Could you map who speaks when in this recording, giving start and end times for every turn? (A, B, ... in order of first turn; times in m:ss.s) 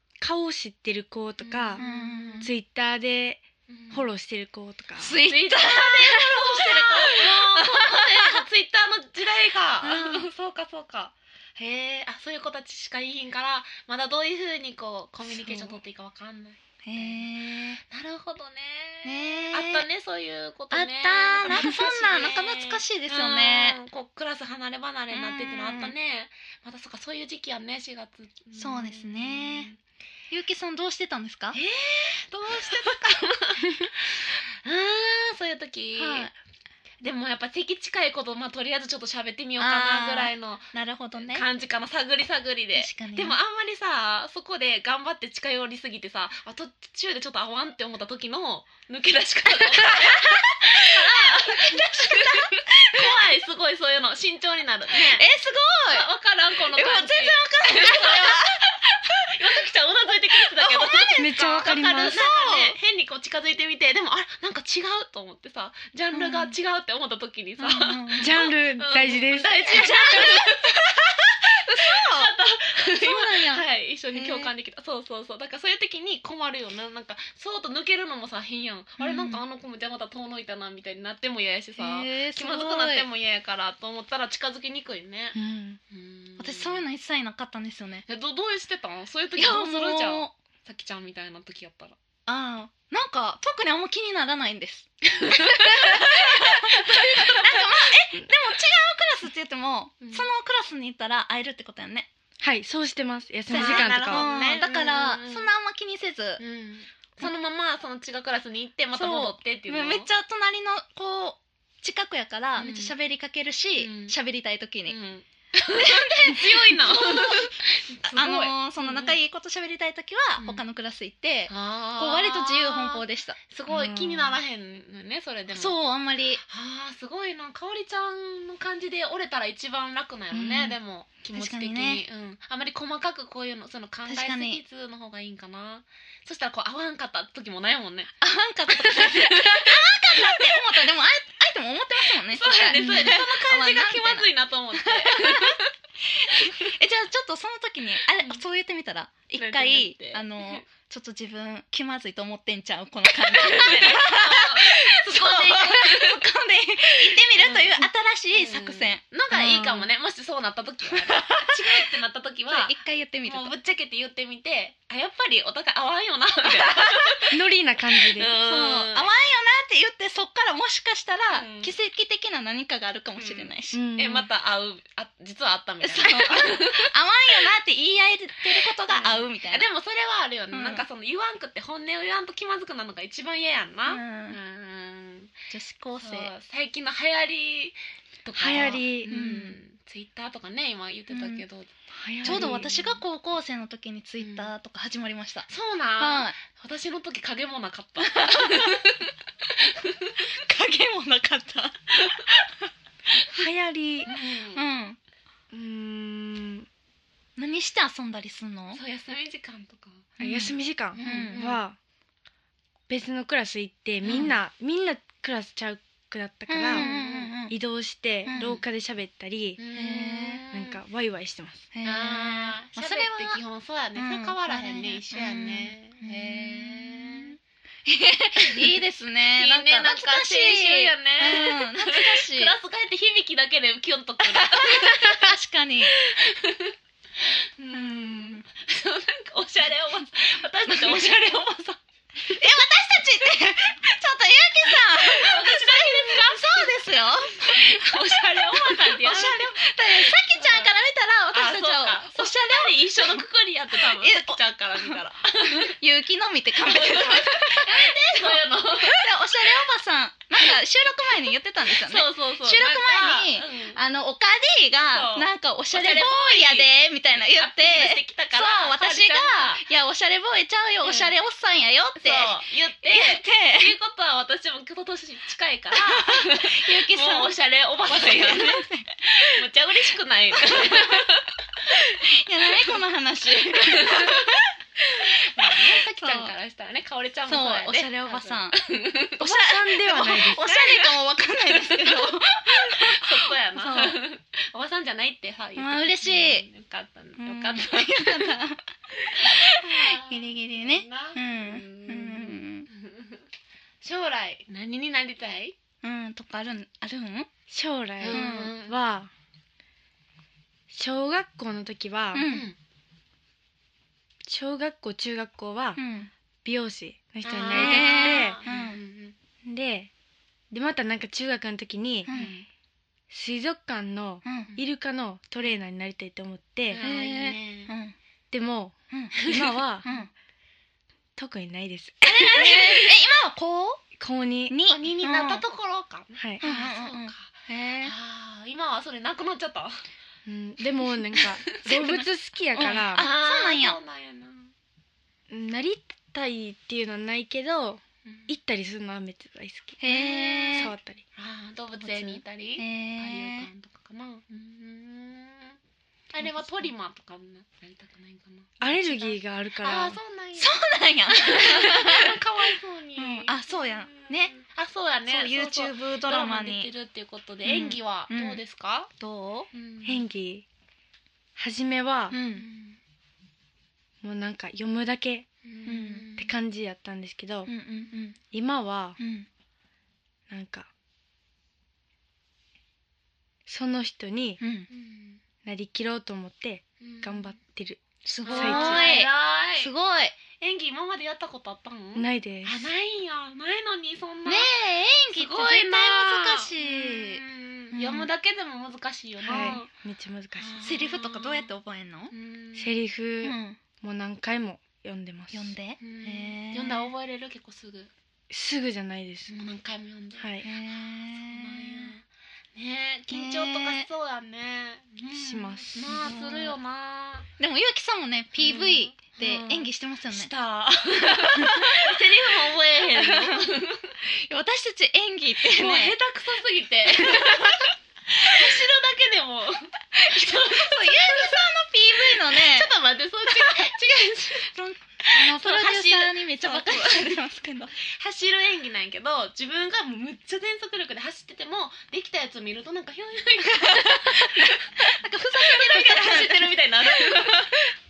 0:00.2-0:01.8 A
0:01.4-0:02.5 B
0:01.8-0:02.5 C
0:02.4-0:05.2 A
0:03.7-0:04.1 B
0:05.0-0:08.4 C
0:05.2-0:17.3 B
0:09.8-0:10.3 C
0:15.3-0:15.7 C
0:16.8-0:17.8 C
0:17.9-0:29.8 B
0:19.0-0:19.8 C
0:20.7-0:23.8 C
0:25.1-0:25.9 C
0:28.6-0:29.7 C
0:30.3-0:31.6 C
0:31.5-0:36.3 B
0:36.0-0:36.3 C
0:37.0-0:55.2 B
0:39.6-0:41.4 C
0:42.7-0:43.4 C
0:49.8-0:53.1 C
0:54.9-0:56.1 C
0:55.9-0:58.6 B
0:56.7-0:58.6 C
0:59.3-1:25.4 B
1:00.5-1:02.8 C
1:01.2-1:02.2 A
1:06.1-1:06.5 C
1:07.6-1:08.5 C
1:08.2-1:10.3 A
1:09.6-1:10.7 C
1:11.5-1:14.5 C
1:19.0-1:19.4 C
1:21.8-1:23.1 C
1:25.3-1:25.8 A
1:25.9-1:26.8 B
1:26.4-1:28.0 C
1:28.1-1:32.0 B
1:29.4-1:30.3 C
1:32.2-1:42.1 C
1:35.2-1:37.9 B
1:40.0-1:40.3 B
1:42.4-1:44.3 A
1:43.5-1:46.4 C
1:43.5-1:45.5 B
1:46.4-1:50.1 B
1:48.9-1:55.0 C
1:52.6-1:52.9 B
1:53.8-1:54.2 B
1:54.9-1:59.2 B
1:55.7-1:57.5 C
1:58.0-2:03.4 C
2:00.4-2:00.6 B
2:01.5-2:05.8 B
2:03.7-2:04.2 A
2:05.5-2:06.4 C
2:06.4-2:18.1 B
2:10.3-2:10.8 C
2:11.3-2:12.0 C
2:14.0-2:14.6 C
2:18.2-2:25.6 C
2:18.7-2:20.8 B
2:22.1-2:25.7 B
2:22.8-2:23.1 A
2:26.2-2:39.0 C
2:26.3-2:26.6 B
2:29.3-2:30.6 B
2:33.1-2:36.2 B
2:37.1-2:42.7 B
2:39.3-2:39.9 A
2:41.1-2:41.8 C
2:42.5-2:43.5 C
2:43.2-2:47.4 B
2:46.8-2:47.1 C
2:47.3-2:48.3 A
2:48.0-2:49.1 B
2:48.4-2:53.8 C
2:51.3-2:51.7 B
2:53.1-2:57.5 B
2:53.7-2:54.3 A
2:55.8-2:59.6 C
2:58.5-3:05.3 B
3:00.5-3:00.8 C
3:03.9-3:04.4 C
3:05.5-3:06.3 C
3:06.0-3:11.7 B
3:08.3-3:09.1 A
3:09.1-3:09.6 C
3:11.1-3:11.4 C
3:11.9-3:12.7 A
3:12.2-3:13.0 B
3:12.2-3:16.4 C
3:14.2-3:14.5 B
3:15.5-3:20.1 B
3:18.0-3:18.9 C
3:20.4-3:22.0 C
3:23.3-3:24.1 A
3:24.0-3:24.6 B
3:24.5-3:25.0 C
3:25.5-3:26.7 A
3:27.4-3:28.8 C
3:28.7-3:30.1 B
3:30.2-3:31.8 A
3:30.2-3:31.4 C
3:31.0-3:31.6 B
3:32.9-3:36.9 A
3:34.0-3:34.4 B
3:34.0-3:34.3 C
3:36.5-3:37.5 C
3:36.7-3:37.3 B
3:37.5-3:39.6 A
3:38.2-3:38.5 C
3:38.3-3:38.6 B
3:39.6-3:40.8 B
3:39.7-3:40.4 C
3:40.5-3:41.6 A
3:41.7-3:43.4 C
3:41.8-3:47.3 B
3:43.9-3:52.6 C
3:48.4-3:55.4 B
3:54.4-3:56.0 C
3:55.9-4:01.8 B
3:57.7-3:58.4 C
4:02.3-4:13.2 C
4:04.6-4:06.7 B
4:07.4-4:10.7 B
4:11.3-4:15.8 B
4:13.7-4:15.0 C
4:15.5-4:33.7 C
4:16.6-4:19.7 B
4:21.6-4:23.8 B
4:24.9-4:29.6 B
4:30.8-4:31.1 B
4:31.9-4:41.8 B
4:35.8-4:37.4 C
4:37.9-4:39.3 C
4:40.4-4:41.1 C
4:41.7-4:46.3 C
4:42.5-4:42.8 B
4:43.5-4:44.4 B
4:45.2-4:49.3 B
4:47.3-4:48.6 C
4:49.2-4:50.5 A
4:49.2-4:54.0 C
4:49.8-4:58.4 B
4:55.6-4:56.5 C
4:57.2-5:02.7 C
4:59.3-5:03.2 B
5:03.8-5:05.6 B
5:05.8-5:07.3 C
5:07.5-5:09.1 A
5:08.0-5:08.9 B
5:08.1-5:08.5 C
5:10.7-5:12.3 A
5:12.1-5:12.5 C
5:12.2-5:12.6 B
5:14.2-5:15.8 A
5:15.8-5:16.1 C
5:16.4-5:18.4 A
5:17.2-5:19.1 B
5:17.5-5:18.8 C
5:19.4-5:19.9 A
5:20.5-5:22.1 A
5:22.1-5:22.4 C
5:22.1-5:22.5 B
5:23.1-5:26.8 A
5:24.2-5:24.5 C
5:26.7-5:27.7 B
5:26.8-5:27.9 C
5:28.3-5:29.9 A
5:28.9-5:29.3 C
5:29.2-5:30.0 B
5:29.8-5:30.1 C
5:31.2-5:32.9 A
5:32.0-5:33.8 C
5:32.4-5:32.8 B
5:34.0-5:34.6 A
5:34.5-5:35.4 C
5:34.7-5:39.8 B
5:36.4-5:37.9 C
5:40.2-5:43.1 A
5:41.6-5:43.8 C
5:42.5-5:44.5 B
5:45.3-5:51.0 A
5:48.0-5:48.3 B
5:49.8-5:50.7 C
5:50.2-5:50.4 B
5:51.2-5:55.6 B
5:51.8-5:53.5 C
5:56.1-6:00.6 B
5:58.6-6:00.0 A
6:00.3-6:02.2 C
6:01.1-6:08.9 B
6:03.0-6:04.3 C
6:05.0-6:06.7 C
6:07.4-6:08.4 C
6:09.0-6:09.5 C
6:09.5-6:10.0 B
6:09.8-6:10.4 A
6:11.4-6:12.2 A
6:12.1-6:12.4 C
6:12.3-6:12.8 B
6:14.0-6:15.3 A
6:15.4-6:16.3 B
6:15.6-6:16.1 C
6:16.2-6:17.5 A
6:17.5-6:18.2 C
6:18.3-6:19.0 A
6:19.0-6:19.3 C
6:20.3-6:20.7 A
6:23.5-6:24.4 A
6:24.4-6:24.7 C
6:24.7-6:25.2 B
6:25.4-6:28.9 A
6:26.8-6:27.4 B
6:28.0-6:30.2 C
6:28.2-6:29.7 B
6:30.3-6:34.5 B
6:31.9-6:32.7 A
6:34.2-6:38.1 C
6:35.1-6:39.7 B
6:39.2-6:40.6 A
6:39.3-6:39.6 C
6:40.4-6:41.5 B
6:40.6-6:42.1 C
6:42.1-6:42.8 B
6:42.6-6:45.5 A
6:43.2-6:43.6 C
6:45.3-6:46.9 C
6:45.8-6:47.9 B
6:48.3-6:49.4 A
6:49.3-6:50.4 B
6:50.2-6:50.4 A
6:50.4-6:51.9 C
6:51.2-6:57.3 B
6:53.1-6:53.9 C
6:55.1-6:55.9 A
6:55.8-6:56.6 C
6:57.4-7:00.3 C
6:58.4-7:03.9 B
7:01.1-7:01.9 C
7:03.0-7:03.4 C
7:04.1-7:06.0 C
7:05.5-7:14.5 B
7:07.1-7:07.5 C
7:10.0-7:12.7 C
7:13.3-7:13.7 C
7:14.5-7:17.7 C
7:15.1-7:17.2 B
7:17.8-7:27.6 B
7:23.4-7:27.5 C